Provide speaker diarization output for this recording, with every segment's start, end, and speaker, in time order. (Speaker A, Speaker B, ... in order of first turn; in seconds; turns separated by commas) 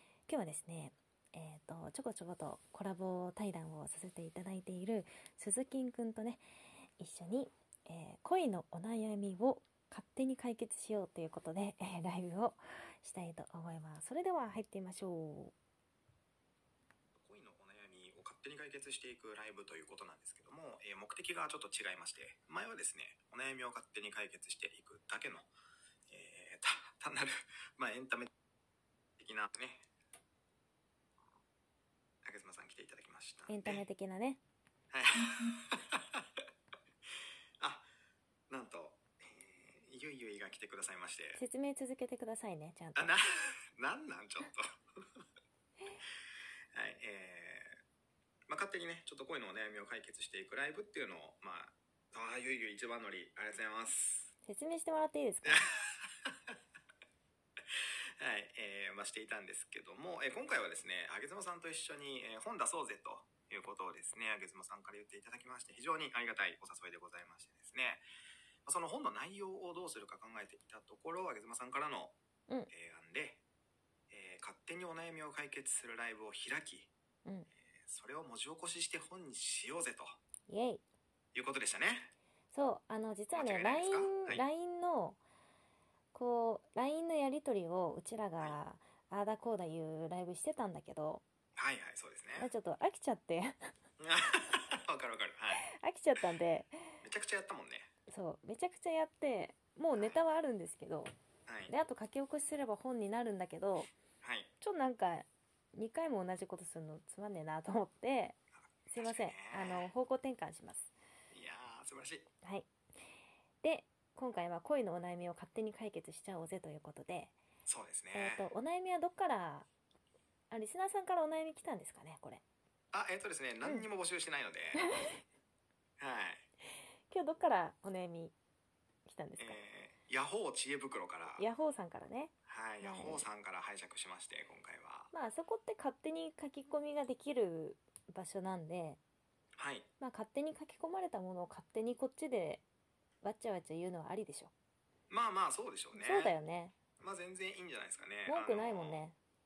Speaker A: 0.3-6.4, Speaker A: 7.0-15.5, Speaker B: 17.1-25.5, Speaker B: 26.1-28.3, Speaker B: 29.2-29.9, Speaker B: 32.2-33.8, Speaker A: 33.5-34.4, Speaker B: 34.9-36.3, Speaker B: 37.6-37.9, Speaker B: 38.5-41.4, Speaker A: 41.4-43.1, Speaker B: 43.0-45.0, Speaker B: 46.7-47.7, Speaker B: 48.5-54.3, Speaker A: 54.5-55.6, Speaker B: 55.4-56.6, Speaker B: 57.7-68.0, Speaker B: 68.7-72.2, Speaker B: 72.7-73.4, Speaker B: 74.1-76.9, Speaker B: 77.6-80.2, Speaker A: 80.5-80.8, Speaker B: 81.3-82.1, Speaker A: 82.5-85.2, Speaker B: 83.3-84.4, Speaker A: 86.1-91.2, Speaker B: 91.6-92.5, Speaker A: 92.4-93.7, Speaker B: 94.0-95.7, Speaker A: 95.5-96.8, Speaker B: 97.0-97.9, Speaker A: 98.1-101.1, Speaker B: 100.0-100.2, Speaker B: 101.5-101.7, Speaker A: 101.7-103.9, Speaker B: 104.2-104.5, Speaker A: 104.6-108.4, Speaker A: 108.9-110.9, Speaker B: 109.0-109.9, Speaker B: 111.3-112.3, Speaker A: 112.4-112.7, Speaker A: 113.6-117.3, Speaker B: 117.7-118.5, Speaker A: 118.1-119.7, Speaker A: 120.5-122.4, Speaker B: 122.9-124.8, Speaker A: 124.7-125.2, Speaker B: 126.0-126.5, Speaker A: 127.1-128.3, Speaker A: 129.1-129.6, Speaker B: 129.4-131.5, Speaker A: 131.4-133.2, Speaker B: 132.5-135.1, Speaker A: 135.1-139.0, Speaker B: 139.6-139.9, Speaker A: 140.0-142.6, Speaker A: 143.2-144.5, Speaker B: 145.1-146.3, Speaker A: 145.9-146.8, Speaker B: 147.0-149.0, Speaker A: 148.3-149.2